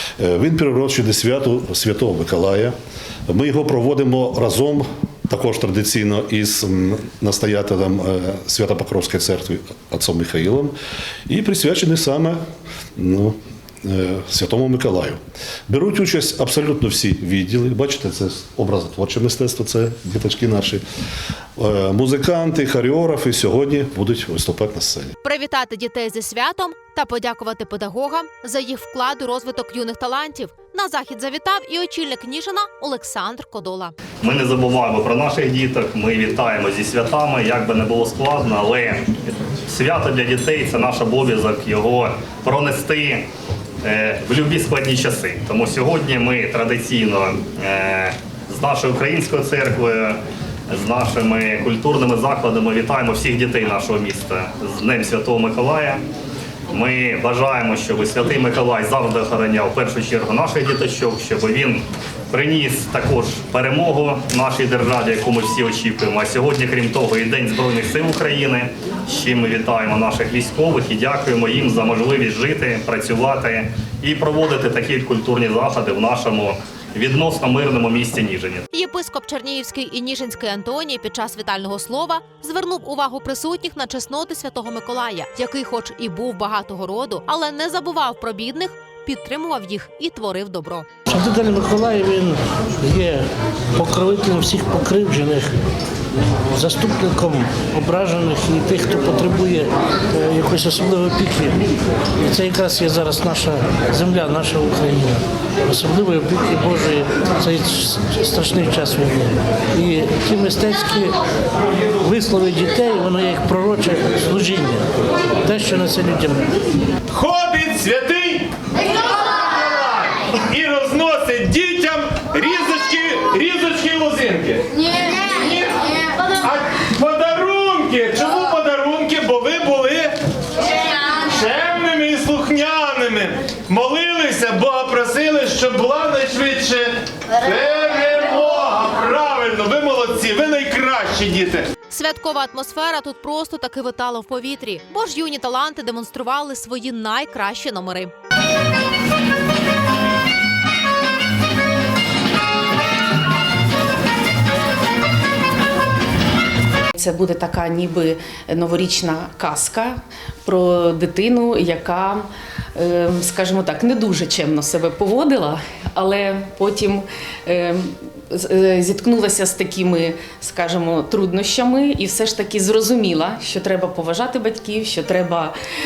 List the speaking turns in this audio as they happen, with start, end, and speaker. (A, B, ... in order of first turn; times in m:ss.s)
0:00.2-0:02.7 A
0:03.3-0:10.7 A
0:11.3-0:12.4 A
0:13.0-0:20.8 A
0:21.6-0:25.1 A
0:25.2-0:34.0 B
0:34.2-0:43.3 C
0:43.8-0:56.0 C
0:56.7-1:18.6 C
1:18.7-1:30.9 B
1:31.1-1:35.5 D
1:36.5-1:41.6 D
1:42.2-1:51.1 D
1:52.0-1:54.9 D
1:55.4-1:56.5 D
1:57.1-1:58.5 E
1:59.2-2:10.2 E
2:11.0-2:21.7 E
2:21.9-2:28.1 B
2:36.9-2:55.5 F